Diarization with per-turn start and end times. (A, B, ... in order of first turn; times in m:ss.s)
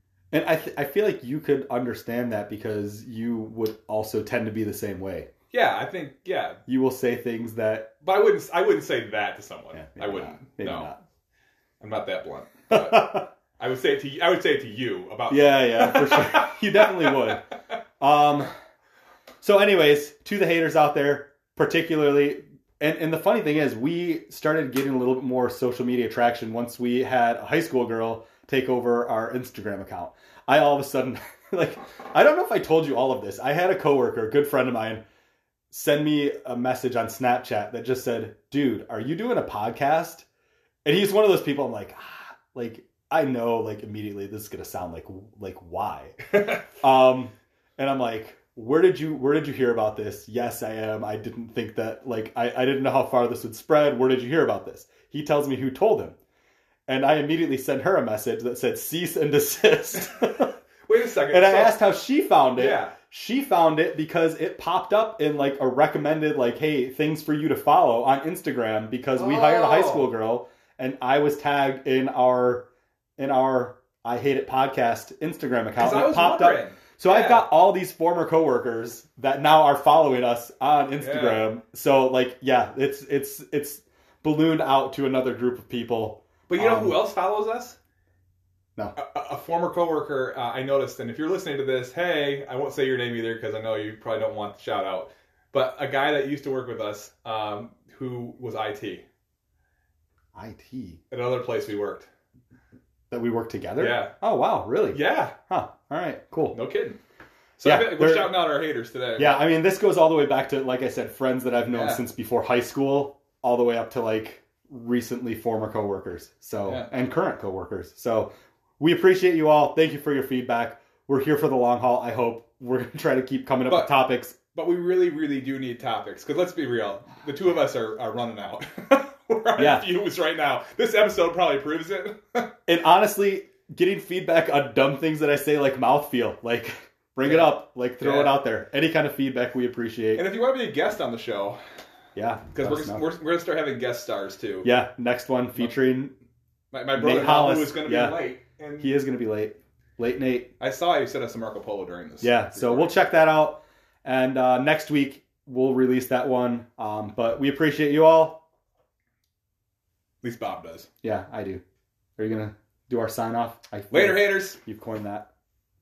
0:00.3-0:05.3 A
0:05.5-0:06.6 B
0:06.7-0:07.9 A
0:08.0-0:10.9 B
0:09.7-0:11.0 A
0:11.8-0:17.4 B
0:12.7-0:13.3 A
0:15.3-0:17.4 A
0:18.0-0:18.5 A
0:19.4-0:35.0 A
0:35.7-0:40.2 A
0:40.8-0:46.2 A
0:46.8-0:56.2 A
0:56.9-1:00.5 A
1:00.9-1:01.8 B
1:01.3-1:27.0 A
1:02.6-1:02.9 B
1:09.1-1:10.1 B
1:15.8-1:17.5 B
1:21.0-1:21.5 B
1:26.5-1:27.8 B
1:28.9-1:39.0 B
1:40.3-1:41.0 A
1:41.1-1:42.1 B
1:43.1-1:46.6 A
1:43.8-1:44.1 B
1:44.9-1:45.3 B
1:46.5-1:47.0 B
1:47.6-1:49.4 B
1:47.6-1:48.4 A
1:49.2-2:04.4 A
1:51.7-1:52.0 B
2:03.7-2:04.0 B
2:04.5-2:12.5 B
2:09.6-2:09.9 A
2:12.7-2:20.3 A
2:17.2-2:18.4 B
2:20.2-2:21.6 B
2:22.1-2:23.0 A
2:22.5-2:24.7 B
2:24.6-2:26.1 A
2:26.7-2:28.9 B
2:26.9-2:28.2 A
2:28.8-2:30.5 A
2:30.6-2:32.9 B
2:32.2-2:38.4 A
2:40.2-2:40.9 B
2:41.0-2:41.6 A
2:42.2-2:45.3 A
2:43.9-2:44.6 B